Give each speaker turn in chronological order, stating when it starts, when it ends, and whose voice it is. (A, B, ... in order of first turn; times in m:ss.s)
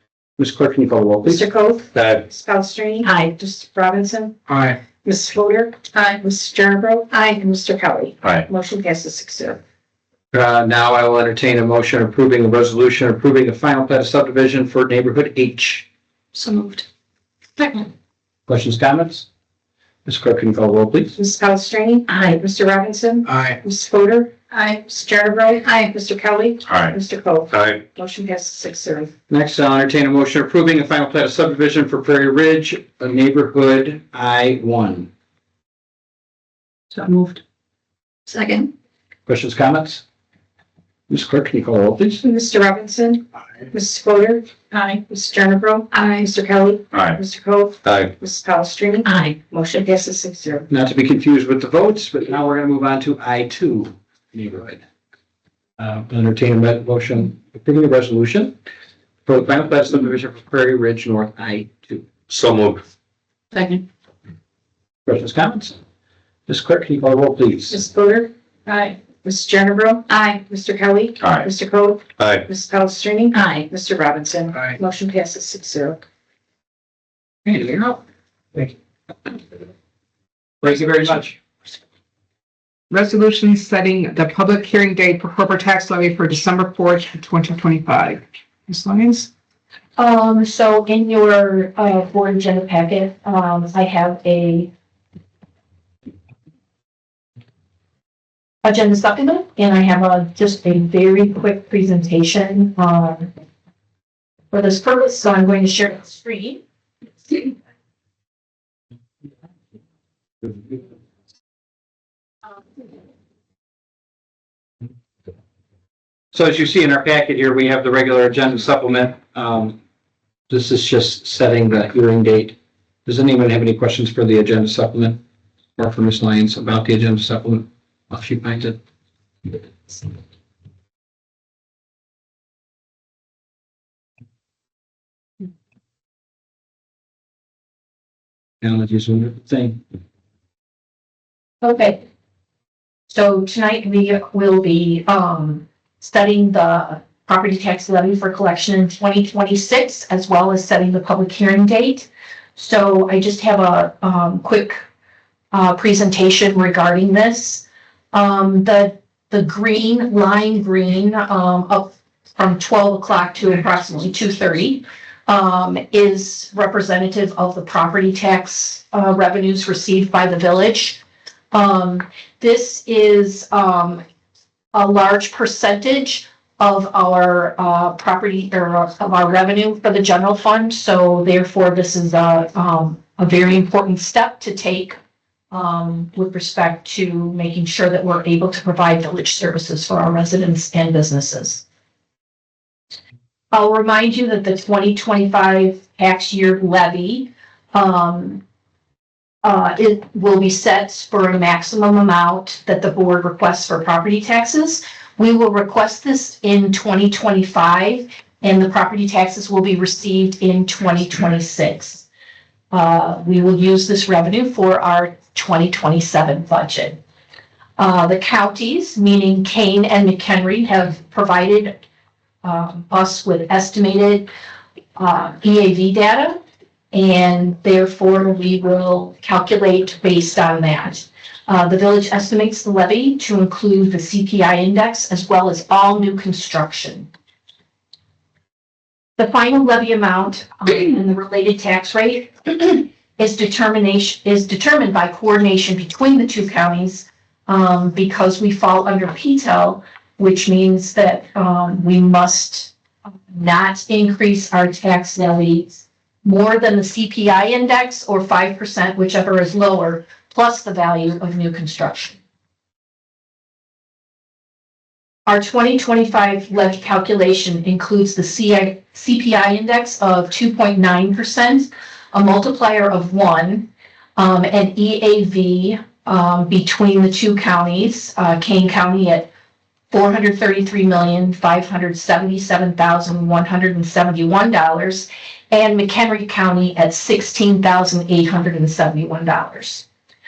0:00.4-0:01.5 A
0:01.2-0:04.4 B
0:01.9-0:02.3 C
0:03.0-0:03.4 D
0:04.5-0:04.8 A
0:05.0-0:09.6 B
0:05.9-0:06.2 D
0:07.1-0:07.4 D
0:10.3-0:15.9 A
0:16.3-0:16.8 D
0:17.6-0:17.9 D
0:18.5-0:19.3 A
0:20.0-0:21.2 A
0:21.2-0:24.3 B
0:22.1-0:22.4 D
0:24.5-0:24.8 D
0:24.9-0:29.1 B
0:25.7-0:25.9 D
0:26.7-0:27.0 C
0:27.5-0:27.8 C
0:29.3-0:35.1 A
0:36.9-0:37.4 D
0:38.3-0:38.7 D
0:39.3-0:40.0 A
0:41.1-0:42.2 A
0:42.2-0:44.5 B
0:44.7-0:45.0 D
0:45.1-0:50.7 B
0:45.9-0:46.3 D
0:46.9-0:47.2 C
0:47.8-0:48.1 C
0:49.0-0:49.4 D
0:50.7-0:54.8 A
0:55.8-0:58.6 A
0:59.3-1:02.1 A
1:02.3-1:02.8 C
1:03.5-1:03.8 D
1:05.1-1:05.8 A
1:06.5-1:07.8 A
1:07.7-1:08.3 B
1:08.7-1:09.0 D
1:09.2-1:16.0 B
1:10.1-1:10.4 D
1:11.2-1:11.5 C
1:12.2-1:12.5 C
1:13.3-1:13.7 D
1:17.4-1:18.0 A
1:20.6-1:21.4 A
1:22.9-1:29.3 E
1:30.0-1:34.7 F
1:38.6-1:43.3 F
1:44.5-1:46.6 F
1:56.3-1:59.8 A
2:00.5-2:02.6 A
2:03.1-2:05.2 A
2:05.8-2:08.8 A
2:18.6-2:19.8 A
2:21.6-2:22.0 F
2:23.1-2:34.8 F
2:35.5-2:51.0 F
2:51.5-2:54.0 F
2:54.7-3:05.0 F
3:05.5-3:11.6 F
3:13.5-3:18.4 F
3:19.4-3:32.1 F
3:32.7-3:37.0 F
3:37.8-3:41.8 F
3:42.4-3:44.3 F
3:45.0-3:46.4 F
3:46.9-3:57.1 F
3:59.2-4:12.7 F
4:13.3-4:22.2 F
4:25.3-4:39.3 F
4:39.9-4:49.8 F